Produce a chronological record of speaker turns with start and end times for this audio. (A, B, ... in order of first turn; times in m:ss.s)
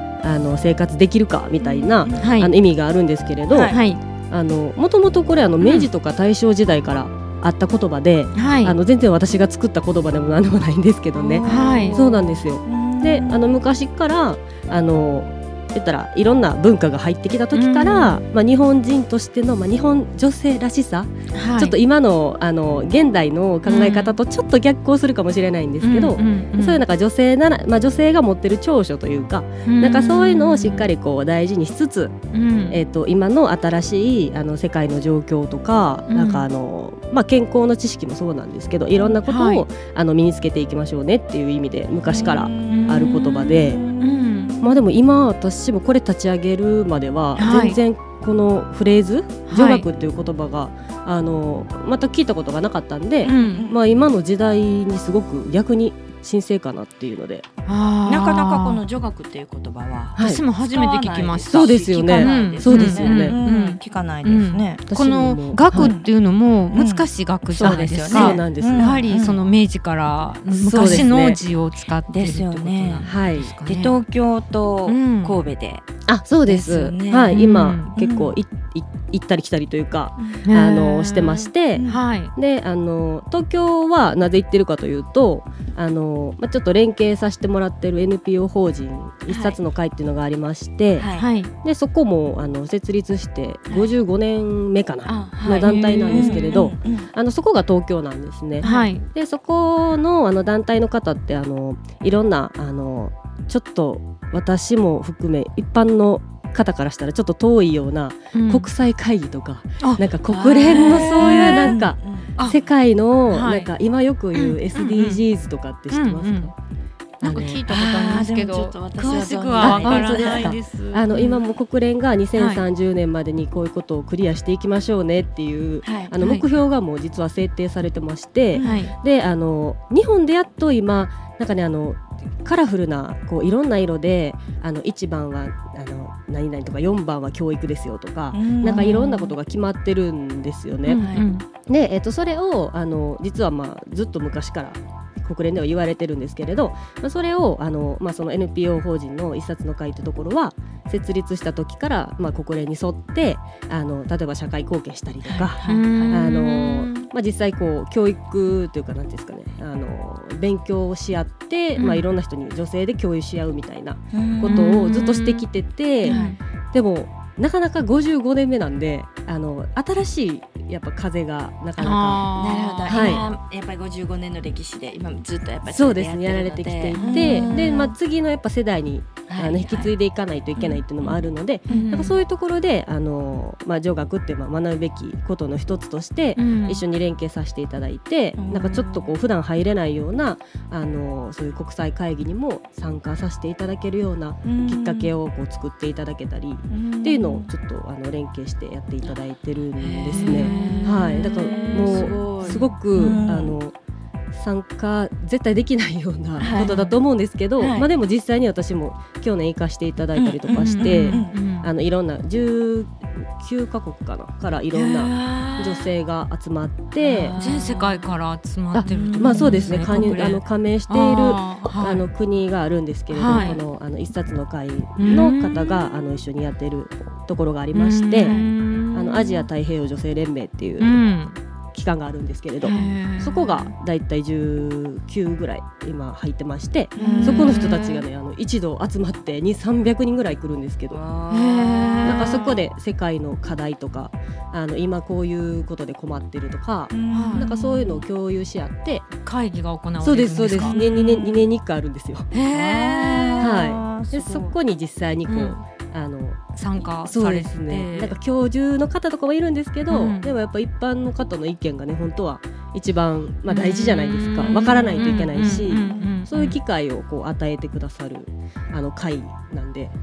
0:00.2-0:32.1 A
0:01.6-0:02.3 B
0:02.1-0:02.5 C
0:03.5-0:03.8 B
0:03.7-0:04.0 C
0:05.6-0:05.9 C
0:08.4-0:08.8 C
0:11.2-0:13.6 B
0:11.4-0:12.0 C
0:17.5-0:18.1 C
0:21.3-0:21.8 C
0:23.7-0:24.2 C
0:25.8-0:26.8 C
0:29.6-0:30.9 C
0:32.3-0:32.8 C
0:32.7-0:43.8 A
0:36.1-0:36.5 C
0:39.2-0:39.6 C
0:42.1-0:44.7 B
0:42.7-0:44.6 C
0:44.6-0:57.4 A
0:47.4-0:47.8 C
0:49.5-0:49.8 C
0:53.2-0:53.7 C
0:53.3-0:54.0 B
0:57.6-0:58.8 C
0:58.0-1:04.8 B
1:00.2-1:00.4 A
1:00.2-1:14.0 C
1:01.4-1:03.4 A
1:04.9-1:05.9 A
1:05.7-1:06.1 B
1:06.7-1:09.4 B
1:07.6-1:09.3 A
1:10.5-1:11.4 A
1:10.7-1:11.1 B
1:12.1-1:13.1 B
1:13.0-1:13.5 A
1:13.6-1:15.8 B
1:14.9-1:15.4 C
1:16.1-1:31.1 A
1:16.4-1:17.4 B
1:17.3-1:17.9 C
1:17.9-1:18.3 B
1:20.2-1:20.4 B
1:20.4-1:22.3 C
1:21.7-1:22.0 B
1:29.3-1:29.6 B
1:31.0-1:31.3 B
1:31.2-1:31.5 C
1:31.6-1:56.5 A
1:35.0-1:37.1 B
1:35.5-1:36.6 C
1:38.6-1:38.9 B
1:38.6-1:39.1 C
1:48.3-1:48.7 C
1:49.8-1:50.0 C
1:50.3-1:52.5 B
1:50.6-1:51.8 C
1:53.3-1:53.7 C
1:54.3-1:55.2 C
1:55.9-1:56.5 C
1:57.2-1:57.6 A
1:57.2-2:01.3 C
1:57.3-2:00.6 B
1:59.6-2:46.2 A
2:02.4-2:02.6 C
2:05.8-2:06.1 B
2:06.2-2:06.4 C
2:08.5-2:08.9 B
2:08.6-2:08.9 C
2:18.3-2:19.2 B
2:18.6-2:19.3 C
2:20.8-2:21.4 C
2:20.9-2:21.3 B
2:35.2-2:36.3 B
2:35.6-2:37.1 C
2:41.8-2:42.0 C
2:44.1-2:44.8 B
2:44.4-2:45.4 C
2:46.0-2:46.4 C
2:46.0-2:46.4 B
2:46.7-2:52.3 A
2:51.8-2:53.3 C
2:52.3-2:57.9 B
2:52.9-2:53.2 A
2:55.6-3:23.7 A
2:56.9-2:57.6 C
2:59.3-2:59.9 B
3:00.6-3:01.9 B
3:01.7-3:02.2 C
3:06.4-3:06.8 C
3:08.4-3:09.1 B
3:14.4-3:15.1 B
3:16.7-3:17.5 B
3:19.8-3:23.5 B
3:20.1-3:23.3 C
3:24.3-3:37.4 A
3:26.4-3:26.9 B
3:26.6-3:26.9 C
3:27.6-3:27.9 B
3:30.2-3:31.7 C
3:30.8-3:31.4 B
3:34.7-3:35.9 B
3:36.9-3:38.1 B
3:37.4-3:42.0 C
3:38.7-3:51.0 A
3:38.8-3:40.2 B
3:43.1-3:43.6 C
3:43.2-3:43.6 B
3:45.0-3:45.8 C
3:47.7-3:49.5 C
3:48.2-3:48.5 B
3:50.8-3:51.4 C
3:51.7-4:01.0 A
3:52.6-3:53.7 C
3:52.6-3:52.9 B
3:57.0-3:57.6 B
3:57.0-3:58.0 C
4:00.9-4:02.5 B
4:01.3-4:02.6 C
4:02.0-4:09.1 A
4:06.9-4:07.8 B
4:07.1-4:08.0 C
4:09.2-4:11.3 C
4:10.0-4:12.3 A
4:10.5-4:11.4 B
4:12.3-4:13.7 C
4:12.5-4:14.5 B
4:13.4-4:29.9 A
4:16.6-4:18.2 C
4:19.9-4:20.3 C
4:23.5-4:26.6 C
4:25.4-4:26.2 B